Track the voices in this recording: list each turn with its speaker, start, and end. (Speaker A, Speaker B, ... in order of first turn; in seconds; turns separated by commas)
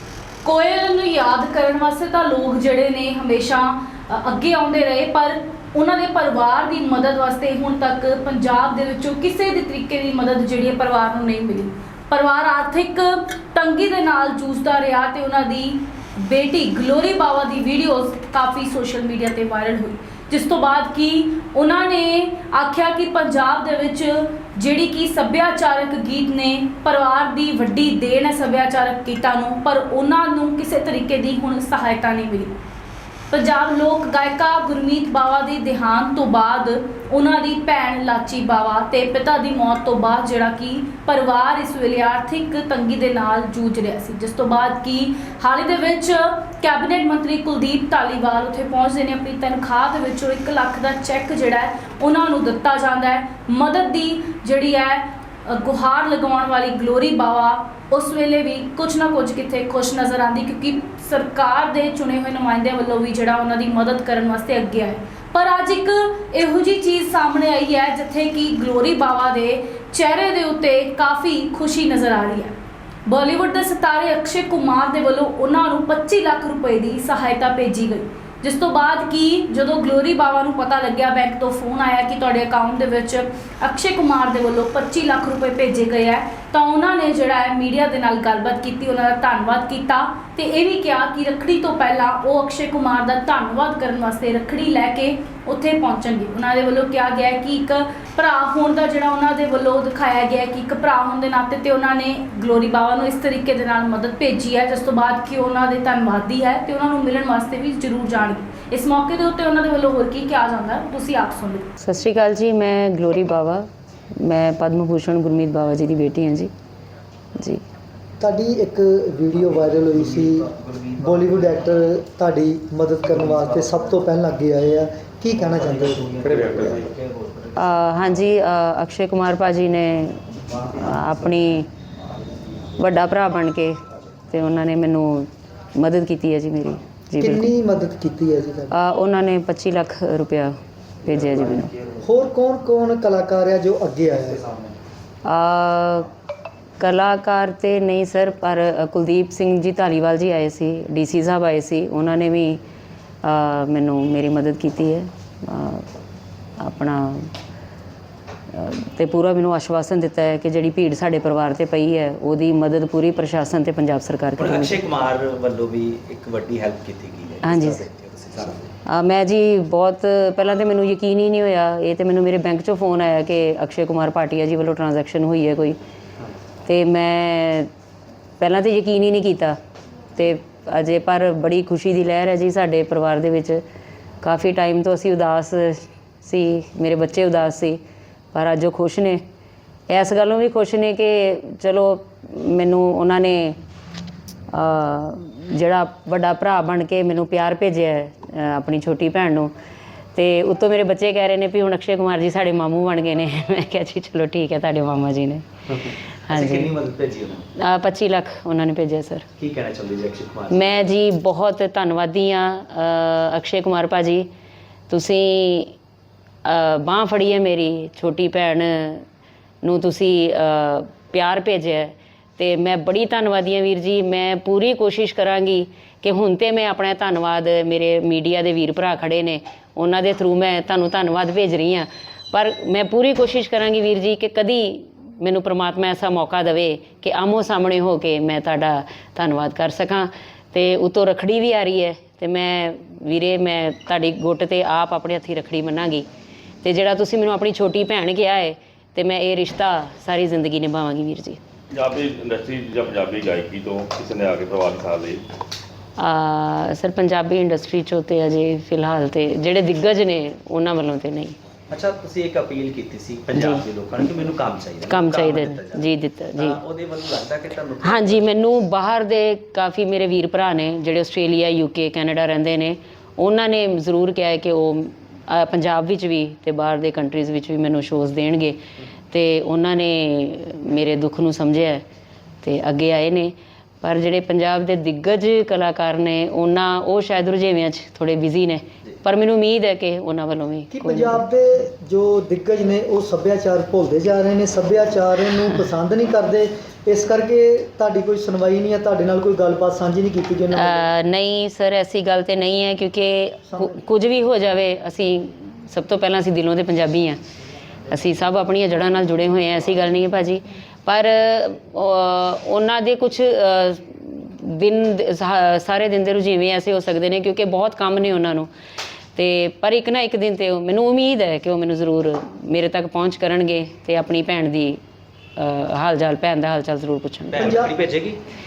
Speaker A: 0.4-32.5, Speaker A: 33.3-72.5, Speaker A: 73.1-111.7, Speaker B: 111.8-113.7, Speaker B: 114.2-116.5, Speaker C: 118.2-120.5, Speaker D: 119.4-121.7, Speaker C: 121.0-126.1, Speaker D: 123.1-123.8, Speaker D: 125.4-128.3, Speaker B: 127.5-131.7, Speaker D: 130.5-131.2, Speaker B: 132.8-133.8, Speaker B: 134.3-137.5, Speaker C: 137.2-138.7, Speaker B: 138.7-141.7, Speaker C: 142.0-144.4, Speaker D: 144.5-144.7, Speaker B: 145.2-146.1, Speaker B: 146.8-152.6, Speaker B: 153.2-155.8, Speaker B: 156.6-157.3, Speaker B: 158.5-164.8, Speaker D: 164.3-168.7, Speaker B: 167.4-167.8, Speaker B: 168.8-175.8, Speaker B: 176.7-177.7, Speaker B: 178.4-179.6, Speaker B: 180.2-183.6, Speaker B: 184.2-187.8, Speaker B: 188.3-189.2, Speaker B: 189.9-193.6, Speaker B: 194.5-199.5, Speaker B: 200.1-205.4, Speaker D: 205.7-207.4, Speaker B: 206.3-206.7, Speaker B: 207.6-209.2, Speaker D: 209.4-210.8, Speaker B: 210.5-214.3, Speaker B: 214.9-215.8, Speaker B: 216.4-219.0, Speaker B: 219.6-246.1, Speaker B: 246.6-251.4, Speaker E: 251.7-255.2, Speaker B: 256.0-261.4, Speaker D: 261.7-268.3, Speaker B: 263.3-263.6, Speaker B: 264.9-266.6, Speaker B: 267.8-278.6, Speaker B: 279.1-281.8, Speaker B: 282.4-291.3, Speaker C: 290.7-300.9, Speaker B: 300.5-307.2, Speaker C: 303.5-303.8, Speaker B: 307.9-318.5, Speaker B: 319.1-324.8, Speaker B: 325.4-327.7, Speaker D: 327.3-328.2, Speaker C: 327.3-327.8